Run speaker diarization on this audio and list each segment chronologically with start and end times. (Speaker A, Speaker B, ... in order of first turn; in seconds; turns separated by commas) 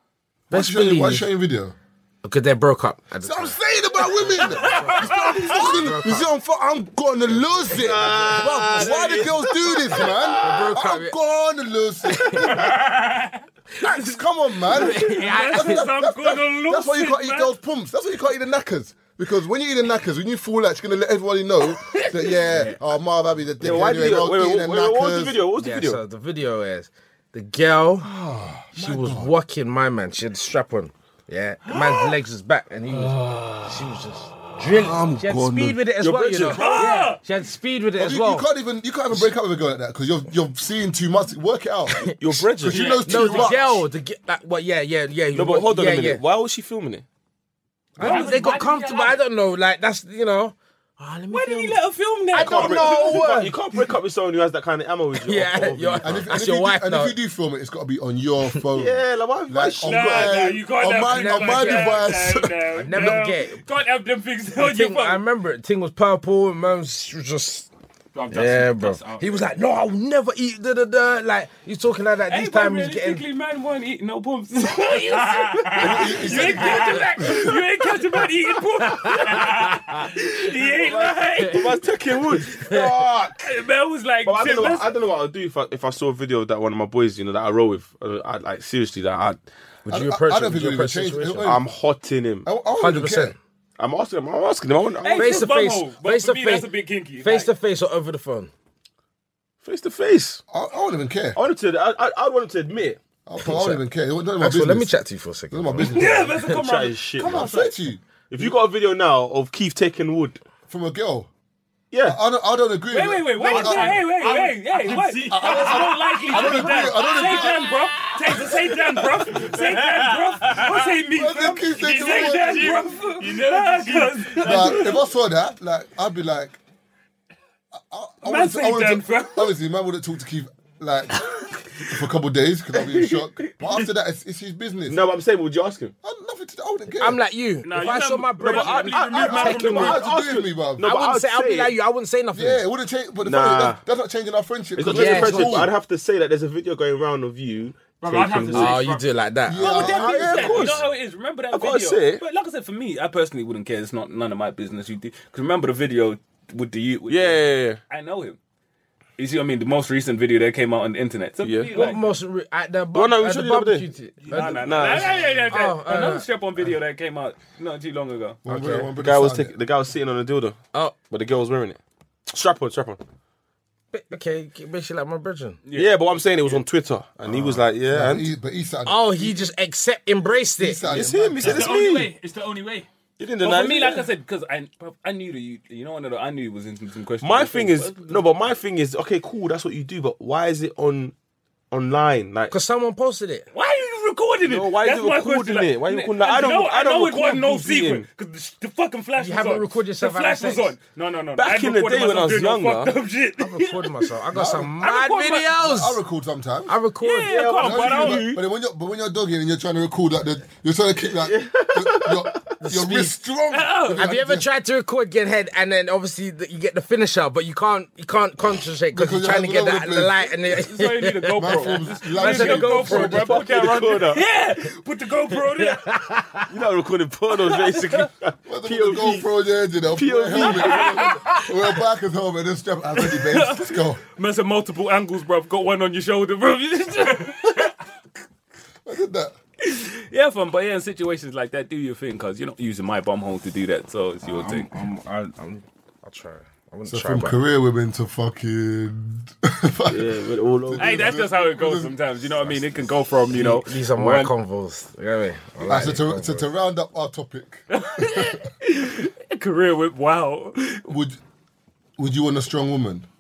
Speaker A: 0.5-1.8, Speaker B: 0.5-1.3, Speaker B: 2.2-6.3, Speaker A: 3.2-12.8, Speaker C: 4.6-5.5, Speaker B: 7.6-8.8, Speaker D: 7.7-10.2, Speaker B: 10.4-11.2, Speaker B: 12.1-12.6, Speaker E: 12.5-13.4, Speaker A: 13.8-25.4, Speaker B: 14.7-15.9, Speaker C: 14.7-17.5, Speaker B: 22.5-22.8, Speaker D: 23.6-26.0, Speaker B: 25.6-28.1, Speaker A: 28.0-29.3, Speaker B: 28.8-38.5, Speaker A: 34.7-35.8, Speaker D: 36.0-37.1, Speaker C: 36.5-37.2, Speaker A: 38.0-43.8, Speaker D: 42.2-43.6, Speaker E: 42.7-43.7, Speaker B: 43.1-46.2, Speaker D: 45.3-47.0, Speaker E: 48.0-49.2, Speaker B: 48.0-51.8, Speaker C: 48.1-48.4, Speaker C: 51.3-53.3, Speaker B: 52.3-53.6, Speaker D: 52.4-56.3, Speaker B: 55.2-57.2, Speaker A: 56.0-62.6, Speaker D: 58.7-60.5, Speaker C: 59.8-65.2, Speaker B: 61.1-62.1, Speaker B: 62.8-63.6, Speaker B: 64.6-67.7, Speaker E: 68.1-69.5, Speaker B: 68.3-73.2, Speaker C: 72.3-81.8, Speaker E: 74.9-77.0, Speaker A: 75.8-77.6, Speaker B: 76.3-77.3, Speaker B: 78.9-80.0, Speaker E: 79.3-79.8, Speaker D: 80.7-83.4, Speaker B: 82.5-82.9, Speaker C: 83.4-84.9, Speaker D: 84.2-89.4, Speaker B: 89.8-91.5, Speaker A: 89.9-91.6, Speaker D: 91.4-92.5, Speaker A: 92.5-93.4, Speaker B: 92.8-93.4, Speaker D: 93.8-95.5, Speaker C: 95.0-97.5, Speaker B: 95.2-96.7, Speaker B: 97.2-98.5, Speaker D: 99.6-100.4, Speaker A: 100.5-101.4, Speaker D: 101.3-103.0, Speaker A: 103.3-105.0, Speaker B: 103.4-103.8, Speaker B: 104.4-106.2, Speaker A: 105.5-106.4, Speaker C: 105.9-107.8, Speaker D: 106.4-107.5, Speaker A: 107.2-108.5, Speaker D: 108.3-110.4, Speaker A: 110.7-111.3, Speaker D: 111.9-112.2, Speaker A: 112.0-114.1, Speaker C: 112.9-124.9, Speaker E: 113.3-117.6, Speaker A: 115.3-117.8, Speaker E: 119.0-125.0, Speaker A: 121.1-122.8, Speaker A: 124.4-126.6, Speaker A: 127.7-135.1, Speaker C: 128.2-129.5, Speaker D: 132.8-133.5, Speaker D: 134.9-135.9, Speaker A: 136.0-137.2, Speaker B: 137.0-140.0, Speaker C: 137.7-140.1, Speaker D: 137.9-141.8, Speaker A: 139.5-140.9, Speaker B: 140.8-142.6, Speaker A: 142.3-145.7, Speaker D: 143.2-143.8, Speaker D: 144.8-148.8, Speaker B: 144.9-145.7, Speaker E: 148.0-149.1, Speaker B: 148.5-149.7, Speaker A: 149.5-150.8, Speaker C: 149.6-158.4, Speaker D: 149.6-150.9, Speaker D: 151.5-152.2, Speaker D: 157.1-157.8, Speaker C: 159.2-162.0, Speaker D: 161.4-161.9, Speaker B: 161.7-166.3, Speaker D: 162.9-163.9, Speaker C: 164.2-168.4, Speaker D: 164.5-165.3, Speaker A: 168.4-169.5, Speaker B: 168.5-168.9, Speaker D: 169.0-173.0, Speaker B: 173.9-175.6, Speaker C: 175.7-175.9, Speaker D: 175.8-178.2, Speaker A: 177.2-179.4, Speaker B: 178.9-180.8, Speaker A: 180.6-181.7, Speaker D: 180.9-182.1, Speaker E: 181.4-182.9, Speaker D: 183.2-184.1, Speaker C: 183.4-188.3, Speaker D: 187.2-191.2, Speaker D: 191.7-192.5, Speaker B: 192.5-193.5, Speaker C: 193.5-204.1, Speaker D: 194.4-198.1, Speaker B: 199.2-200.7, Speaker D: 201.4-202.9, Speaker B: 203.4-206.0, Speaker A: 204.3-204.8, Speaker C: 204.8-205.5, Speaker A: 205.6-206.8, Speaker B: 206.7-207.4, Speaker C: 207.0-208.3, Speaker D: 207.3-208.4, Speaker A: 207.6-214.5, Speaker D: 211.1-212.4, Speaker B: 212.6-213.2, Speaker C: 213.5-214.1, Speaker B: 213.9-224.0, Speaker A: 218.9-220.4, Speaker C: 220.4-226.0, Speaker A: 221.3-223.4, Speaker D: 222.9-224.2, Speaker B: 225.3-226.5, Speaker D: 226.5-229.3, Speaker A: 228.5-234.0, Speaker D: 229.9-231.2, Speaker C: 230.3-231.2, Speaker C: 233.0-237.8, Speaker A: 238.8-239.4, Speaker C: 239.6-244.7, Speaker B: 244.2-247.4, Speaker A: 246.9-252.9, Speaker D: 249.9-251.2, Speaker C: 250.8-254.3, Speaker B: 253.3-256.5, Speaker A: 255.6-258.4, Speaker C: 257.7-260.8, Speaker A: 260.9-261.2, Speaker A: 262.0-263.1